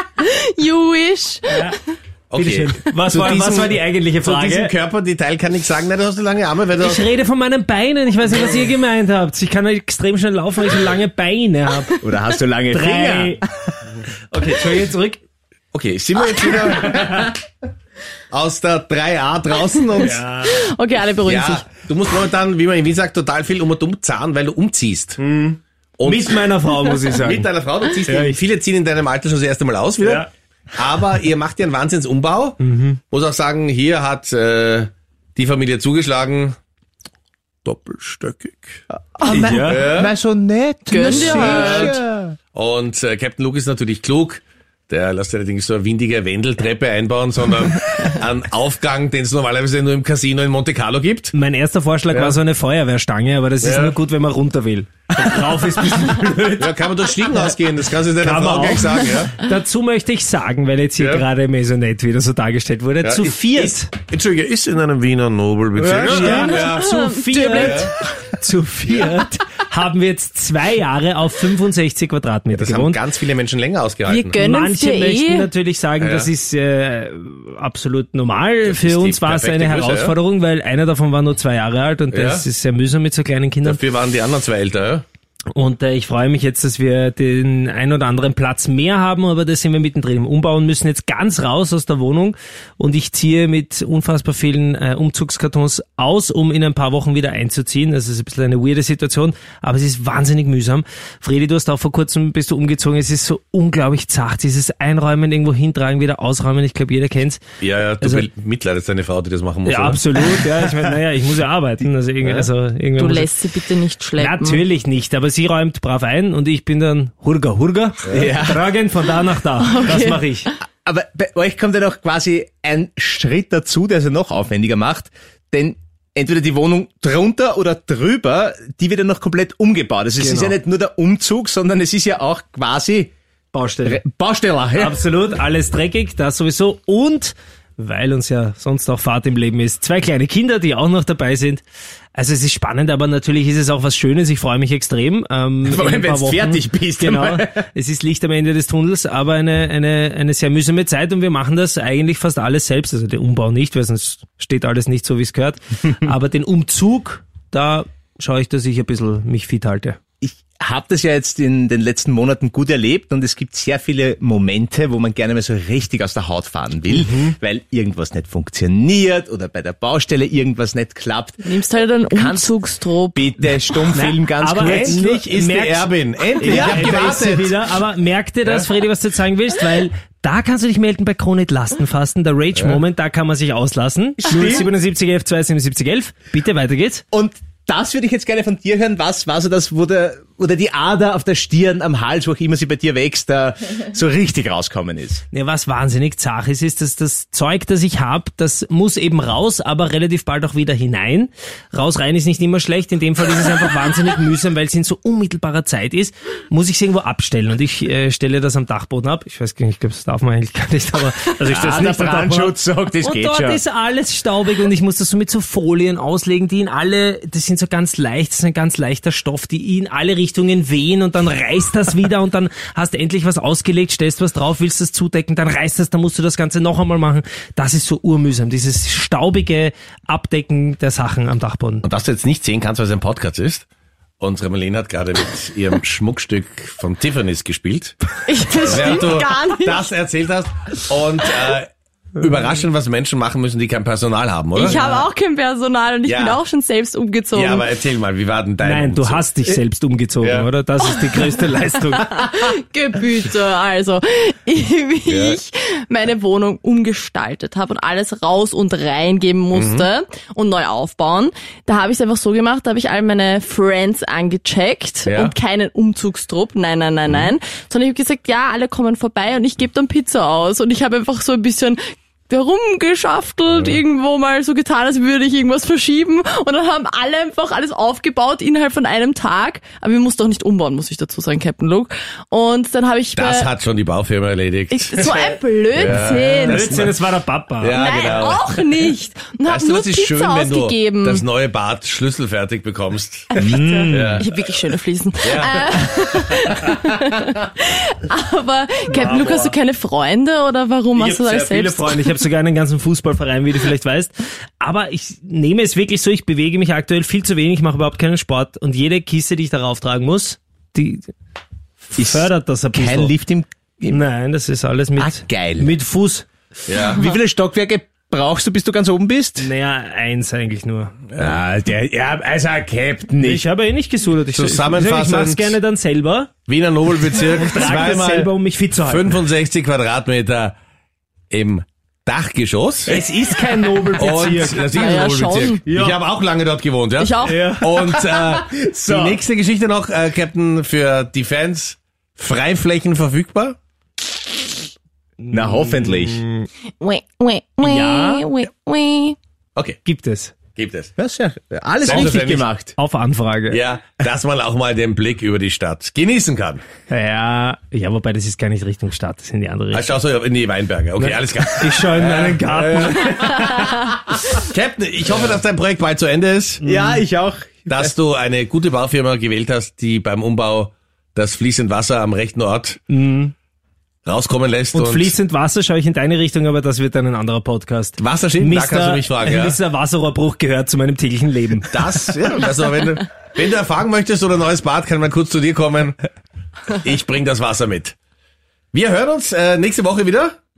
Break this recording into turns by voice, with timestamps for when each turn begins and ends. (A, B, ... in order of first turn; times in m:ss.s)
0:00.2-0:01.7 A
0:01.5-0:01.8 B
0:02.3-0:07.0 C
0:02.4-0:04.7 B
0:06.8-0:12.0 B
0:12.0-0:13.4 D
0:12.7-0:13.4 B
0:14.3-0:15.2 B
0:15.7-0:17.3 C
0:18.3-0:20.2 C
0:20.0-0:20.6 B
0:20.1-0:21.7 A
0:21.3-0:26.5 C
0:26.1-0:27.5 B
0:27.2-0:36.6 C
0:28.1-0:28.4 B
0:30.0-0:30.3 B
0:32.6-0:33.0 B
0:37.6-0:40.1 C
0:38.9-0:42.4 D
0:39.3-0:39.9 B
0:40.9-0:42.0 A
0:41.0-0:42.0 C
0:42.5-0:51.3 C
0:51.3-0:56.6 B
0:52.1-0:52.4 C
0:53.6-0:54.0 C
0:55.2-0:56.6 D
0:56.6-0:59.3 C
0:58.2-1:03.9 B
1:01.0-1:01.2 C
1:03.0-1:06.9 C
1:05.8-1:06.4 D
1:05.9-1:13.0 B
1:06.2-1:07.8 A
1:07.5-1:07.9 C
1:12.5-1:14.4 C
1:14.1-1:15.5 A
1:14.4-1:23.8 B
1:16.0-1:16.3 C
1:18.6-1:20.2 C
1:22.1-1:22.5 C
1:23.6-1:25.0 C
1:25.5-1:47.4 B
1:47.6-1:50.2 C
1:48.0-1:48.3 B
1:49.6-1:53.3 B
1:53.0-1:54.6 A
1:54.2-2:00.5 B
1:58.1-1:58.6 D
1:59.6-2:00.2 A
2:00.8-2:13.1 D
2:10.2-2:10.6 B
2:13.5-2:14.0 B
2:13.8-2:15.0 D
2:14.8-2:21.6 B
2:22.2-2:40.0 B
2:25.6-2:27.6 D
2:40.2-2:52.6 D
2:46.9-2:47.3 C
2:51.4-2:53.5 A
2:53.1-2:55.0 D
2:53.9-3:07.0 B
2:54.6-2:57.5 C
2:56.4-2:57.4 D
3:04.2-3:04.7 D
3:07.1-3:15.2 D
3:15.3-3:51.8 B
3:31.4-3:33.6 D
3:51.8-3:53.7 C
3:54.2-3:58.0 C
3:58.3-3:59.9 A
3:58.6-4:04.8 C
4:04.6-4:05.0 B
4:04.6-4:07.7 A
4:06.1-4:06.4 C
4:07.3-4:09.2 C
4:08.6-4:12.1 B
4:10.2-4:10.5 C
4:10.8-4:43.5 A
4:15.1-4:15.4 C
4:19.5-4:19.9 C
4:25.1-4:25.4 C
4:33.5-4:33.8 C
4:43.1-4:45.1 C
4:44.7-4:46.7 A
4:45.7-4:47.0 C
4:46.1-4:47.8 B
4:47.6-4:48.5 C
4:47.8-4:51.2 A
4:49.5-4:53.3 C
4:53.3-5:02.1 A
4:53.4-4:54.2 B
4:53.9-4:54.2 C
4:55.2-4:55.6 C
4:58.9-4:59.6 B
5:01.0-5:11.1 B
5:11.8-5:13.1 B
5:12.0-5:14.0 D
5:13.9-5:16.3 B
5:15.0-5:15.8 D
5:16.7-5:17.0 C
5:16.8-5:19.5 D
5:19.4-5:21.0 B
5:21.2-5:23.4 D
5:23.2-5:26.3 B
5:24.3-5:25.6 C
5:26.5-5:28.3 C
5:27.1-5:29.2 B
5:28.9-5:30.6 C
5:31.3-5:33.0 C
5:32.9-5:34.9 B
5:33.9-5:43.6 C
5:34.7-5:35.7 A
5:35.6-5:36.0 B
5:37.0-5:37.5 A
5:37.2-5:37.7 B
5:38.0-5:39.2 D
5:45.2-5:46.5 B
5:45.3-5:46.2 D
5:46.8-5:49.2 A
5:47.6-5:48.3 B
5:49.8-5:50.4 B
5:50.6-5:50.9 C
5:51.0-5:52.7 D
5:51.8-5:52.5 C
5:51.9-5:53.6 B
5:53.5-5:56.6 C
5:56.9-6:00.0 B
5:59.7-6:03.3 C
6:01.0-6:03.7 B
6:04.3-6:06.6 C
6:06.6-6:07.0 B
6:06.6-6:07.9 D
6:07.7-6:12.8 C
6:12.9-6:13.3 B
6:14.0-6:15.2 C
6:14.7-6:21.8 B
6:18.0-6:19.6 C
6:21.7-6:26.0 C
6:26.7-6:28.0 C
6:28.7-6:30.4 C